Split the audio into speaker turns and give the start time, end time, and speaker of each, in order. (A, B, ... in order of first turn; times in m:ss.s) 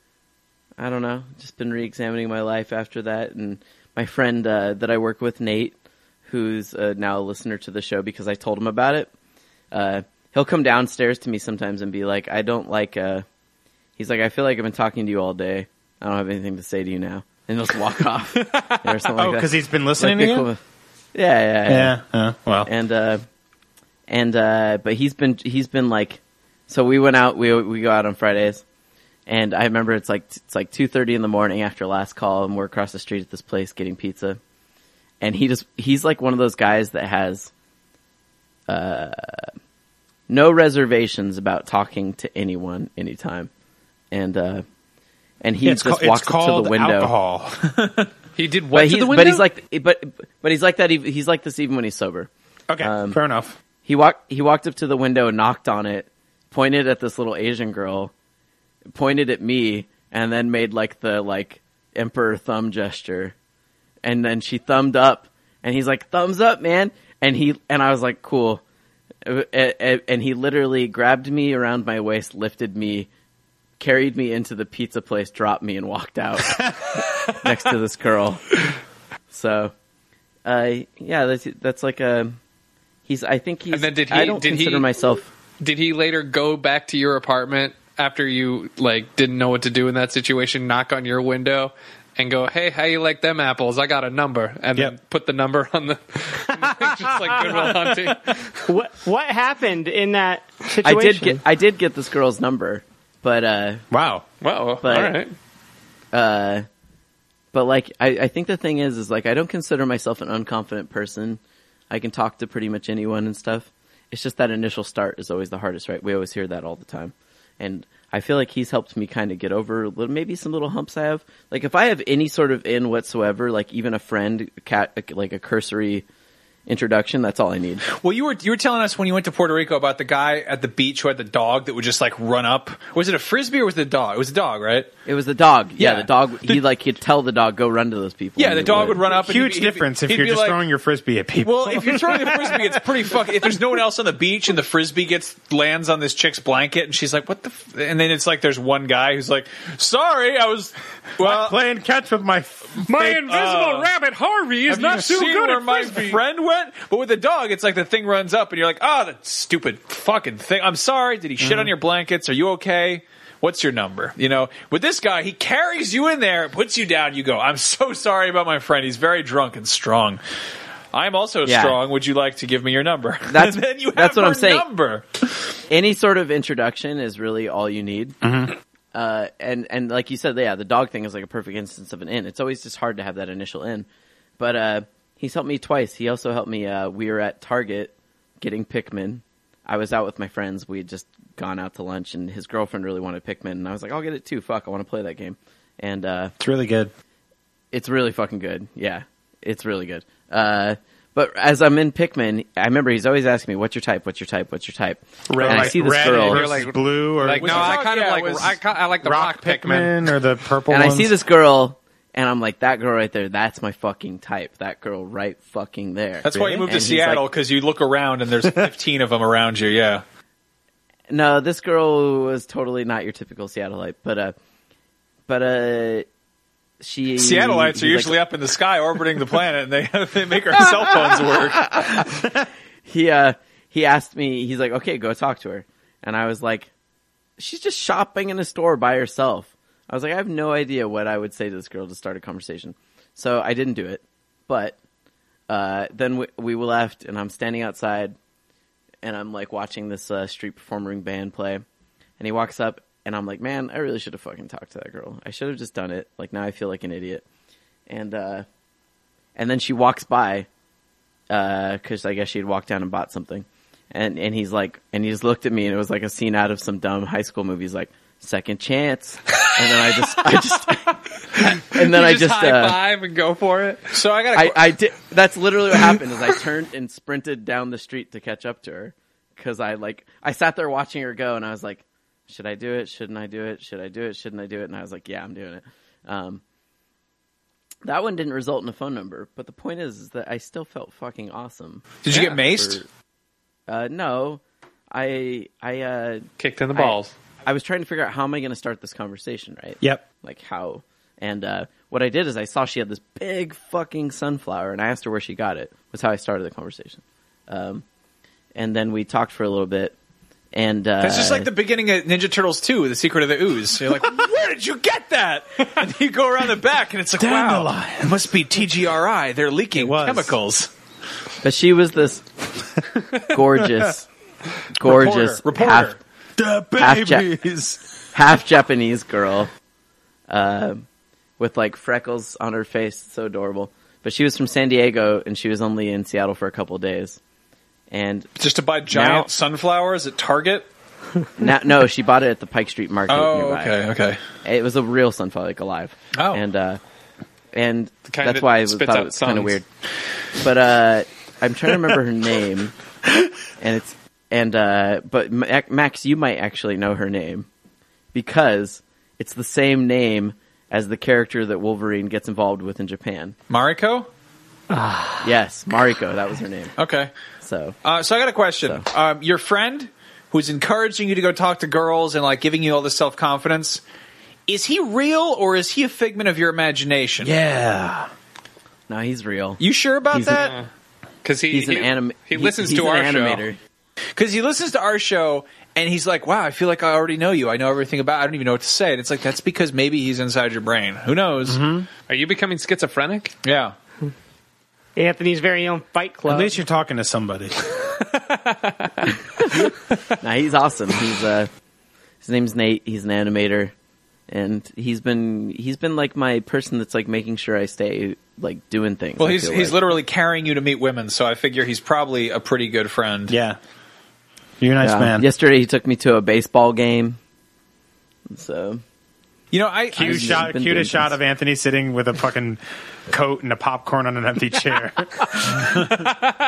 0:00.8-0:09.1 A
0:09.7-0:13.2 A
0:14.0-0:20.6 A
0:19.2-0:20.5 B
0:21.1-0:22.0 A
0:21.7-0:22.7 B
0:22.6-0:23.2 A
0:24.1-0:28.6 A
0:29.3-0:34.4 A
0:35.2-0:37.5 A
0:38.7-0:39.4 A
0:40.3-0:43.5 A
0:44.1-0:44.6 A
0:45.4-0:47.1 A
0:45.6-0:47.7 B
0:48.4-0:49.4 C
0:48.7-0:52.3 A
0:52.7-0:53.6 B
0:52.8-0:53.2 A
0:53.8-0:58.1 A
0:58.9-1:03.3 A
1:04.0-1:08.6 A
1:09.2-1:13.1 A
1:13.8-1:18.5 A
1:19.3-1:19.7 A
1:20.4-1:22.4 A
1:23.1-1:25.3 A
1:23.7-1:24.9 C
1:25.6-1:38.6 C
1:38.6-1:41.4 D
1:40.8-1:43.8 A
1:43.9-1:44.2 B
1:44.4-1:45.3 C
1:44.8-1:45.2 A
1:46.1-1:46.6 A
1:47.5-2:06.0 A
2:06.7-2:07.8 A
2:07.9-2:14.9 E
2:15.0-2:19.1 A
2:15.8-2:16.6 E
2:18.4-2:20.6 E
2:19.1-2:22.6 B
2:21.4-2:31.6 E
2:31.2-2:33.3 B
2:32.9-2:36.2 C
2:33.2-2:33.9 E
2:34.7-2:50.2 E
2:41.4-2:41.7 B
2:50.9-2:55.4 E
2:51.4-2:51.8 A
2:53.3-2:54.7 A
2:55.7-2:58.2 A
2:58.2-2:58.5 B
2:58.9-3:03.8 A
3:04.4-3:16.3 A
3:16.4-3:16.9 B
3:17.7-3:26.4 A
3:25.3-3:27.8 B
3:25.4-3:30.0 C
3:27.4-3:28.6 E
3:29.0-3:31.1 B
3:30.7-3:37.2 A
3:36.2-3:40.0 E
3:41.1-3:44.3 A
3:45.3-3:46.0 A
3:46.8-3:48.2 A
3:47.2-3:52.0 E
3:51.8-3:52.2 A
3:52.8-3:56.7 A
3:57.4-4:04.8 A
4:05.5-4:08.2 A
4:09.0-4:11.6 A
4:12.2-4:17.2 A
4:17.9-4:18.4 A
4:19.4-4:20.5 A
4:21.3-4:32.8 A
4:31.6-4:33.9 C
4:33.9-4:34.7 E
4:34.3-4:46.4 A
4:47.8-4:52.9 A
4:52.0-4:52.8 E
4:53.7-5:07.8 A
4:56.4-4:57.1 C
5:08.5-5:09.9 A
5:10.5-5:11.5 A
5:11.0-5:20.7 E
5:17.2-5:18.3 B
5:19.7-5:20.4 B
5:21.4-5:22.2 A
5:23.2-5:24.1 A
5:24.8-5:26.0 A
5:24.8-5:26.0 E
5:26.4-5:27.8 B
5:26.8-5:27.3 A
5:28.1-5:29.5 A
5:30.3-5:30.8 A
5:31.4-5:37.2 A
5:37.9-5:38.3 A
5:38.4-5:40.7 E
5:38.9-5:39.3 A
5:41.4-5:43.8 A
5:43.1-5:44.2 E
5:44.4-5:46.8 A
5:46.1-5:46.4 E
5:47.5-5:49.6 A
5:48.1-5:49.6 C
5:50.4-5:52.7 A
5:53.6-5:57.5 A
5:58.1-6:03.4 A
6:03.5-6:04.1 E
6:04.7-6:05.2 D
6:05.2-6:06.7 A
6:06.8-6:07.1 E
6:07.4-6:07.7 A
6:07.8-6:13.8 E
6:14.5-6:17.3 E
6:17.2-6:18.1 B
6:18.9-6:19.6 A
6:19.6-6:20.5 E
6:20.1-6:20.5 A
6:21.2-6:23.4 C
6:21.5-6:23.6 A
6:24.2-6:31.6 E
6:31.4-6:31.9 B
6:32.1-6:33.3 C
6:33.4-6:33.7 E
6:35.0-6:36.5 D
6:36.3-6:37.5 B
6:38.1-6:39.1 C
6:40.2-6:41.5 A
6:42.2-6:43.7 A
6:44.3-6:49.8 A
6:49.2-6:53.4 E
6:53.3-6:53.6 B
6:54.6-6:55.2 B
6:54.8-6:57.2 A
6:58.3-6:58.8 A
6:59.5-7:00.4 E
6:59.9-7:06.1 B
7:00.0-7:01.1 A